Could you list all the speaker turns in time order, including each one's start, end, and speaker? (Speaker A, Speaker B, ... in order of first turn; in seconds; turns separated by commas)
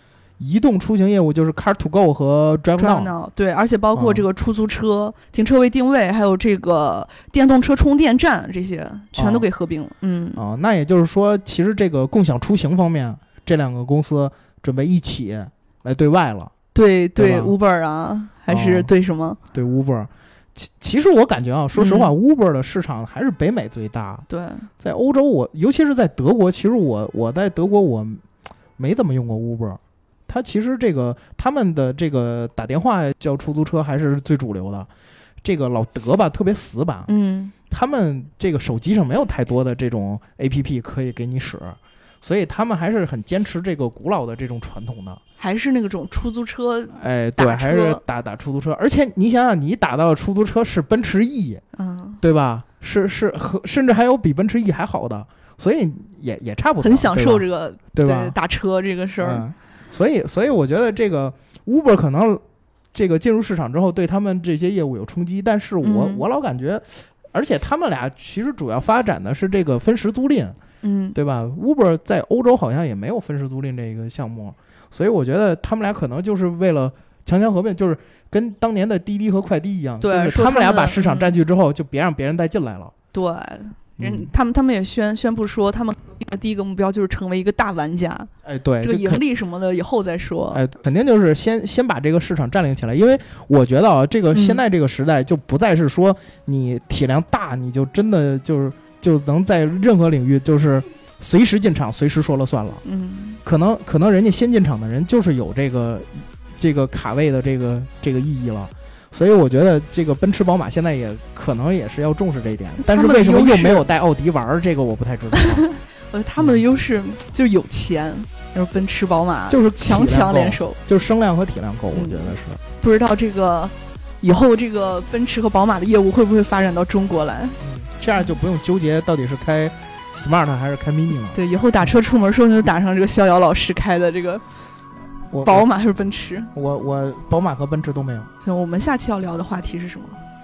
Speaker A: 0.4-3.1, Speaker B: 2.8-10.4, Speaker A: 3.9-4.2, Speaker A: 9.1-9.5, Speaker A: 10.3-16.5, Speaker B: 16.7-19.4, Speaker A: 17.2-17.5, Speaker A: 18.5-18.9, Speaker A: 19.5-24.2, Speaker B: 21.7-22.1, Speaker B: 24.3-24.7, Speaker A: 24.8-28.2, Speaker A: 28.8-34.9, Speaker A: 35.4-37.1, Speaker B: 37.1-37.5, Speaker A: 37.7-45.2, Speaker B: 45.4-48.0, Speaker A: 46.9-51.6, Speaker B: 51.8-52.2, Speaker A: 52.2-58.4, Speaker B: 56.8-59.4, Speaker A: 59.2-62.4, Speaker A: 62.9-70.6, Speaker B: 65.8-66.2, Speaker B: 70.8-71.2, Speaker A: 71.1-82.9, Speaker B: 80.0-81.4, Speaker B: 83.1-88.3, Speaker A: 84.0-84.3, Speaker A: 88.4-89.2, Speaker B: 88.8-90.6, Speaker A: 90.5-102.8, Speaker B: 94.3-94.6, Speaker B: 102.8-103.4, Speaker A: 103.4-115.7, Speaker B: 112.8-113.8, Speaker B: 115.3-120.8, Speaker A: 119.5-122.6, Speaker B: 121.9-127.6, Speaker A: 127.6-132.0, Speaker B: 131.3-134.4, Speaker A: 135.3-135.7, Speaker B: 135.4-136.5, Speaker A: 136.5-138.3, Speaker B: 138.4-140.2